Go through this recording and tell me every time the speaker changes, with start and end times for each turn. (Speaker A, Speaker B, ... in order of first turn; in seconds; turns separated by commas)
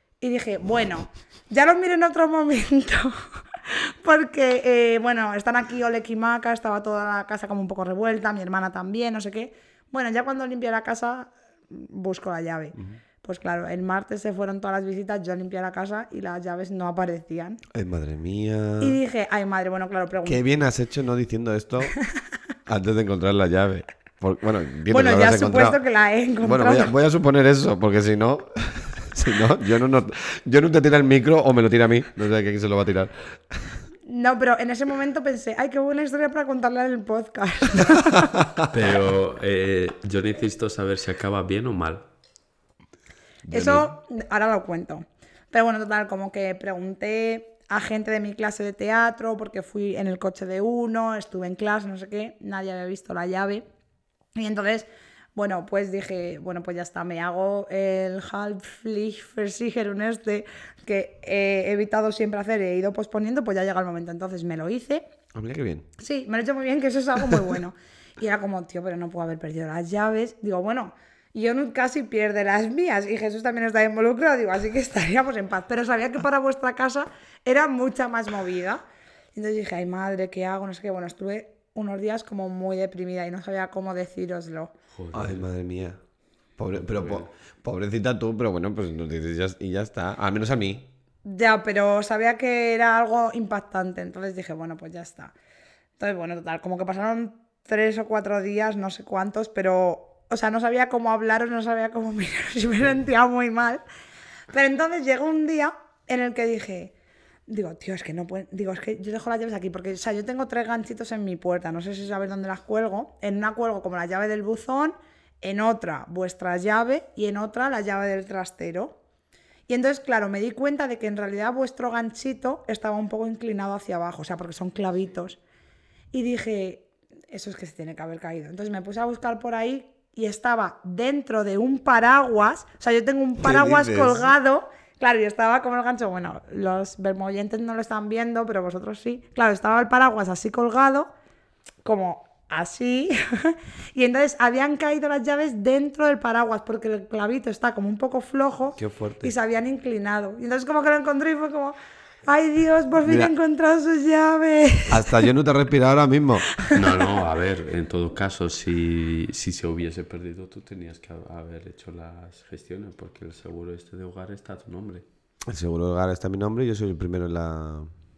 Speaker A: 0.2-17.6, Speaker B: 17.7-19.0, Speaker A: 18.8-20.4, Speaker B: 20.3-21.9, Speaker B: 22.7-25.8, Speaker A: 24.9-26.9, Speaker B: 26.4-33.3, Speaker A: 34.1-38.3, Speaker B: 38.3-38.7, Speaker C: 38.7-42.0, Speaker B: 43.5-43.9, Speaker A: 43.5-53.6, Speaker A: 54.4-65.0, Speaker B: 65.3-65.9, Speaker A: 66.0-78.8, Speaker A: 79.3-84.7, Speaker C: 84.9-85.4, Speaker B: 85.1-86.0, Speaker B: 86.6-90.9, Speaker C: 86.8-87.3, Speaker A: 91.2-95.3, Speaker A: 96.0-103.8, Speaker A: 104.5-106.9, Speaker A: 107.5-119.0, Speaker A: 119.7-125.4, Speaker A: 126.1-141.1, Speaker B: 133.4-134.3, Speaker A: 141.8-155.3, Speaker B: 148.8-149.3, Speaker B: 153.0-153.3, Speaker B: 154.9-156.5, Speaker A: 156.5-156.8, Speaker C: 156.7-165.1, Speaker B: 165.5-167.9